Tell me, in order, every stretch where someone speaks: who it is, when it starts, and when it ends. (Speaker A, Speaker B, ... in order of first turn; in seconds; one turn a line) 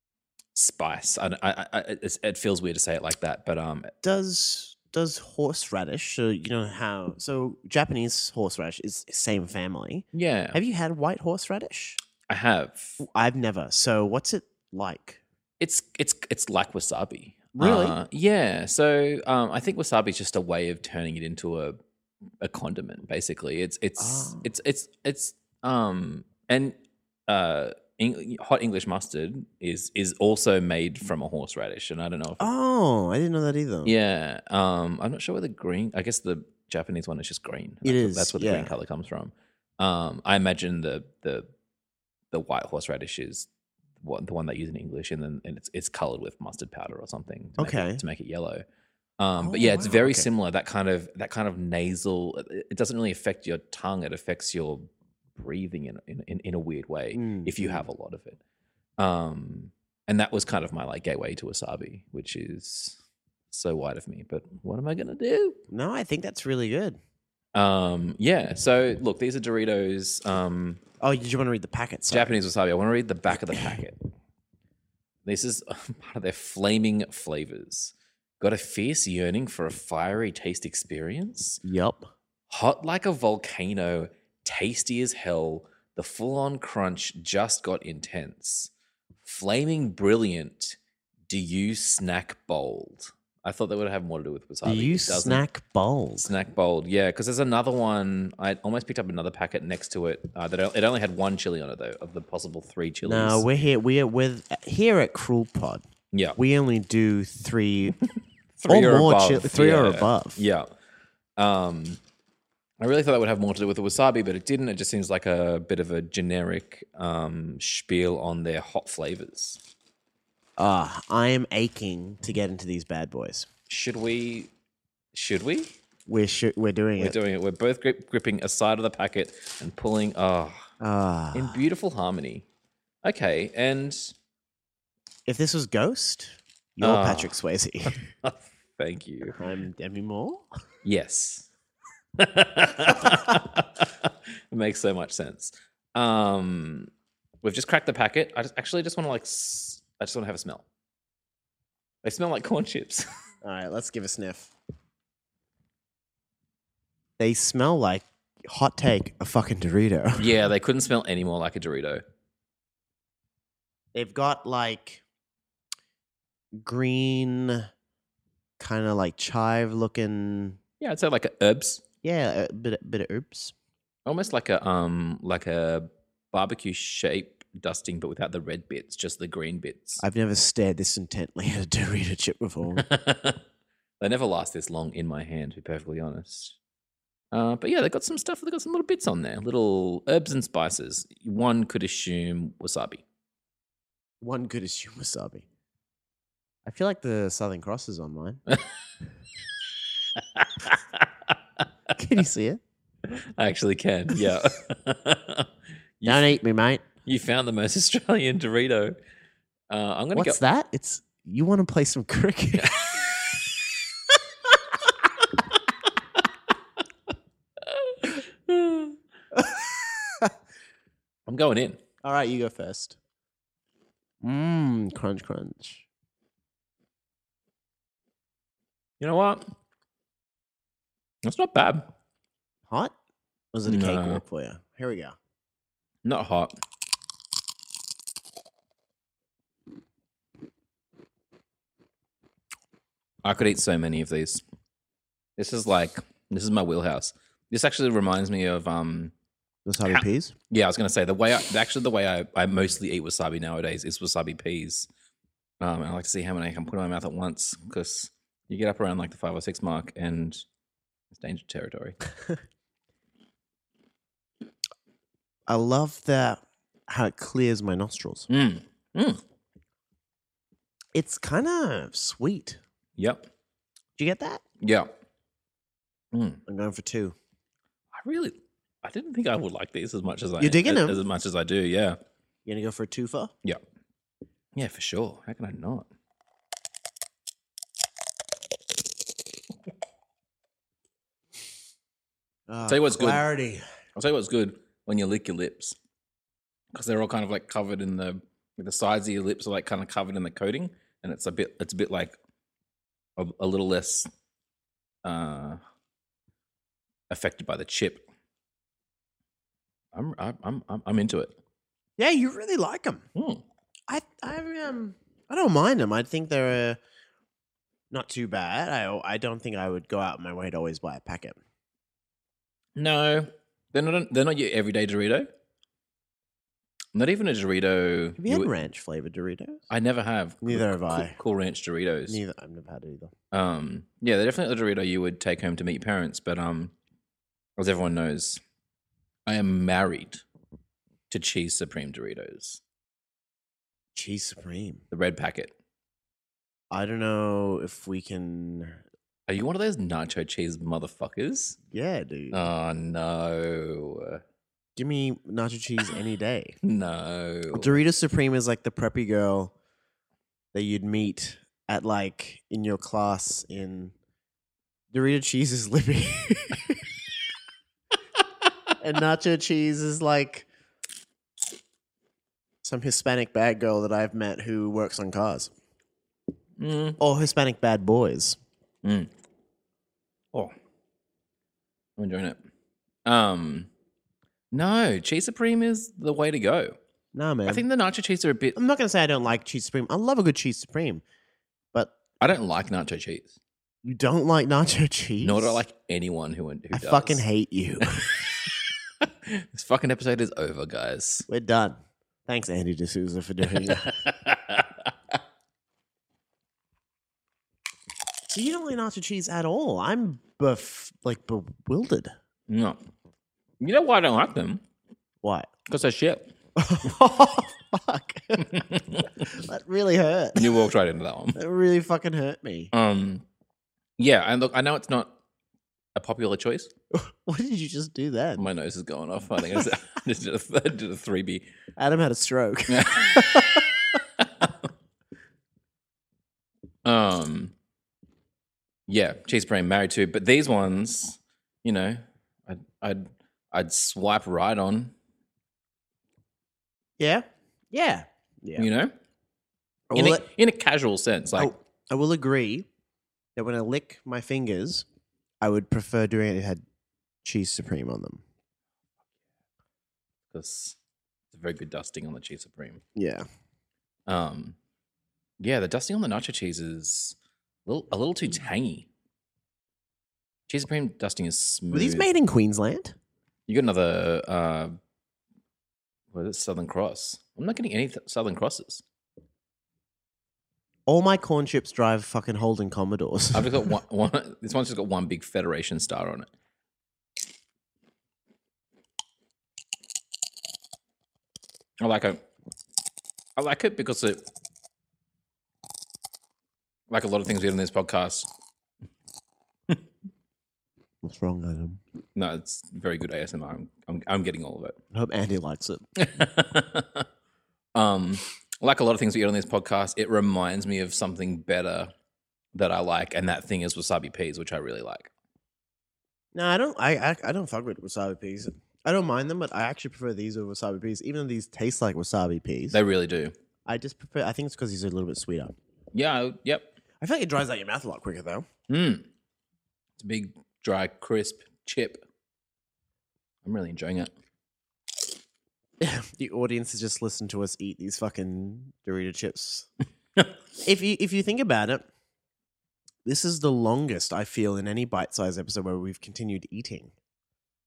Speaker A: 0.6-3.9
Speaker B: 4.0-12.0
Speaker A: 10.1-10.6
Speaker A: 12.3-13.0
Speaker B: 13.0-15.2
Speaker A: 15.6-21.8
Speaker B: 17.6-18.0
Speaker A: 22.4-26.8
Speaker B: 24.0-24.4
Speaker A: 27.3-32.5
Speaker B: 32.4-33.9
Speaker A: 33.9-41.5
Speaker B: 37.8-38.7
Speaker A: 42.3-43.5
Speaker A: 44.0-48.6
Speaker B: 47.6-48.0
Speaker A: 49.2-58.4
Speaker B: 49.4-50.3
Speaker B: 57.1-57.9
Speaker A: 59.0-63.0
Speaker A: 63.5-65.6
Speaker B: 65.7-67.0
Speaker A: 67.5-70.8
Speaker B: 71.0-72.3
Speaker A: 72.1-74.0
Speaker B: 73.5-73.8
Speaker A: 75.2-81.6
Speaker B: 81.6-82.1
Speaker A: 82.5-88.7
Speaker A: 89.2-95.4
Speaker B: 94.7-96.3
Speaker A: 96.2-103.5
Speaker B: 103.0-105.8
Speaker A: 106.1-106.4
Speaker B: 106.4-108.0
Speaker A: 108.6-110.7
Speaker B: 108.7-110.4
Speaker A: 111.4-112.0
Speaker A: 112.8-119.6
Speaker B: 120.6-123.5
Speaker A: 123.7-124.5
Speaker A: 125.1-125.7
Speaker B: 126.1-127.2
Speaker A: 127.0-130.7
Speaker B: 130.8-131.6
Speaker A: 131.3-132.5
Speaker A: 133.0-134.1
Speaker B: 135.3-138.0
Speaker A: 136.8-137.4
Speaker A: 138.2-139.4
Speaker B: 139.4-140.5
Speaker A: 140.8-141.5
Speaker A: 142.2-146.9
Speaker A: 147.4-150.7
Speaker A: 152.0-153.1
Speaker B: 153.4-154.5
Speaker B: 157.2-160.3
Speaker A: 160.2-162.0
Speaker B: 163.9-165.0
Speaker B: 166.6-167.7
Speaker B: 168.6-170.6
Speaker A: 170.8-171.8
Speaker B: 172.0-173.5
Speaker A: 174.1-180.0
Speaker B: 180.0-182.8
Speaker A: 182.8-183.4
Speaker A: 184.0-186.6
Speaker A: 187.3-193.0
Speaker B: 194.2-195.4
Speaker B: 196.7-198.4
Speaker A: 200.2-201.3
Speaker B: 201.9-202.6
Speaker A: 203.1-205.5
Speaker A: 206.0-206.4
Speaker B: 206.1-206.8
Speaker A: 207.0-209.0
Speaker A: 209.7-210.4
Speaker B: 210.2-213.2
Speaker A: 212.6-213.0
Speaker A: 217.6-219.0
Speaker B: 219.3-220.3
Speaker A: 221.3-221.8
Speaker B: 222.0-223.0
Speaker B: 224.2-225.9
Speaker A: 229.0-229.5
Speaker A: 231.2-231.9
Speaker B: 232.7-232.9
Speaker B: 233.5-235.2
Speaker A: 233.7-234.2
Speaker A: 236.0-236.6
Speaker A: 243.2-244.4
Speaker A: 245.4-249.1
Speaker B: 249.7-250.3
Speaker A: 249.8-254.9
Speaker A: 255.6-260.4
Speaker A: 261.1-262.0
Speaker B: 265.5-268.3
Speaker A: 268.3-269.2
Speaker B: 270.9-272.6
Speaker A: 273.0-273.3
Speaker B: 274.0-274.4
Speaker A: 274.6-274.9
Speaker A: 276.1-276.4
Speaker B: 276.5-277.1
Speaker A: 277.9-282.0
Speaker B: 280.4-281.0
Speaker B: 282.4-283.3
Speaker A: 284.6-285.9
Speaker B: 292.5-293.6
Speaker A: 292.7-293.2
Speaker A: 293.9-295.8
Speaker A: 296.7-302.1
Speaker A: 303.2-304.1
Speaker A: 305.1-305.6
Speaker A: 307.1-308.1
Speaker A: 309.9-311.4
Speaker B: 312.0-313.1
Speaker A: 313.1-313.4
Speaker B: 313.9-316.8
Speaker B: 317.9-321.4
Speaker A: 322.8-325.3
Speaker A: 326.9-328.5
Speaker B: 328.2-329.6
Speaker A: 329.7-332.2
Speaker B: 330.4-331.2
Speaker B: 332.1-333.1
Speaker A: 333.3-336.7
Speaker A: 337.6-338.4
Speaker A: 339.3-340.2
Speaker A: 341.1-342.6
Speaker B: 343.9-344.8
Speaker A: 344.9-345.5
Speaker B: 346.7-348.8
Speaker A: 349.3-351.6
Speaker B: 351.7-352.4
Speaker A: 352.3-354.2
Speaker B: 354.8-356.6
Speaker A: 356.6-357.8
Speaker B: 357.5-359.5
Speaker B: 360.5-363.9
Speaker B: 364.9-366.9
Speaker B: 368.8-370.5
Speaker B: 372.6-375.5
Speaker A: 376.6-377.0
Speaker B: 377.0-378.4
Speaker A: 378.8-379.1
Speaker A: 382.0-382.4
Speaker A: 383.1-383.7
Speaker A: 384.5-386.8
Speaker B: 387.1-387.6
Speaker A: 387.5-388.6
Speaker B: 388.6-391.0
Speaker A: 392.2-393.4
Speaker B: 393.8-395.6
Speaker A: 395.2-397.2
Speaker B: 396.7-398.3
Speaker A: 398.0-401.3
Speaker B: 401.3-403.9
Speaker A: 403.6-404.9
Speaker B: 408.3-412.1
Speaker A: 412.5-412.8
Speaker A: 413.6-414.6
Speaker B: 415.2-415.5
Speaker A: 415.7-416.3
Speaker B: 416.6-418.7
Speaker A: 418.4-419.3
Speaker B: 419.2-420.5
Speaker A: 420.4-421.4
Speaker B: 421.4-422.7
Speaker A: 422.7-423.2
Speaker A: 424.0-425.2
Speaker A: 425.9-426.7
Speaker B: 426.9-428.4
Speaker A: 428.4-431.5
Speaker B: 431.8-433.7
Speaker A: 432.7-433.6
Speaker A: 434.2-434.5
Speaker A: 436.9-437.5
Speaker A: 438.9-444.9
Speaker B: 447.0-448.7
Speaker A: 448.6-448.9
Speaker B: 449.9-450.3
Speaker A: 449.9-451.5
Speaker B: 451.4-452.7
Speaker B: 453.4-454.9
Speaker B: 455.4-456.6
Speaker B: 457.2-458.2
Speaker A: 460.3-460.8
Speaker A: 461.3-462.8
Speaker B: 462.9-463.3
Speaker A: 464.1-464.6
Speaker A: 465.4-468.9
Speaker A: 470.5-472.1
Speaker B: 471.7-473.0
Speaker A: 473.5-474.8
Speaker A: 476.1-478.8
Speaker B: 480.9-483.7
Speaker A: 483.3-486.3
Speaker A: 491.8-492.2
Speaker A: 493.4-494.2
Speaker A: 496.9-498.3
Speaker B: 501.0-501.8
Speaker A: 502.2-504.8
Speaker B: 504.9-505.9
Speaker A: 506.0-507.1
Speaker A: 507.8-511.9
Speaker A: 512.5-515.1
Speaker B: 516.3-522.8
Speaker A: 522.7-523.3
Speaker B: 523.7-525.5
Speaker A: 525.9-526.7
Speaker B: 527.0-528.5
Speaker A: 528.7-529.1
Speaker A: 530.0-532.0
Speaker A: 533.5-534.1
Speaker B: 535.8-539.7
Speaker B: 540.6-541.9
Speaker B: 543.0-546.9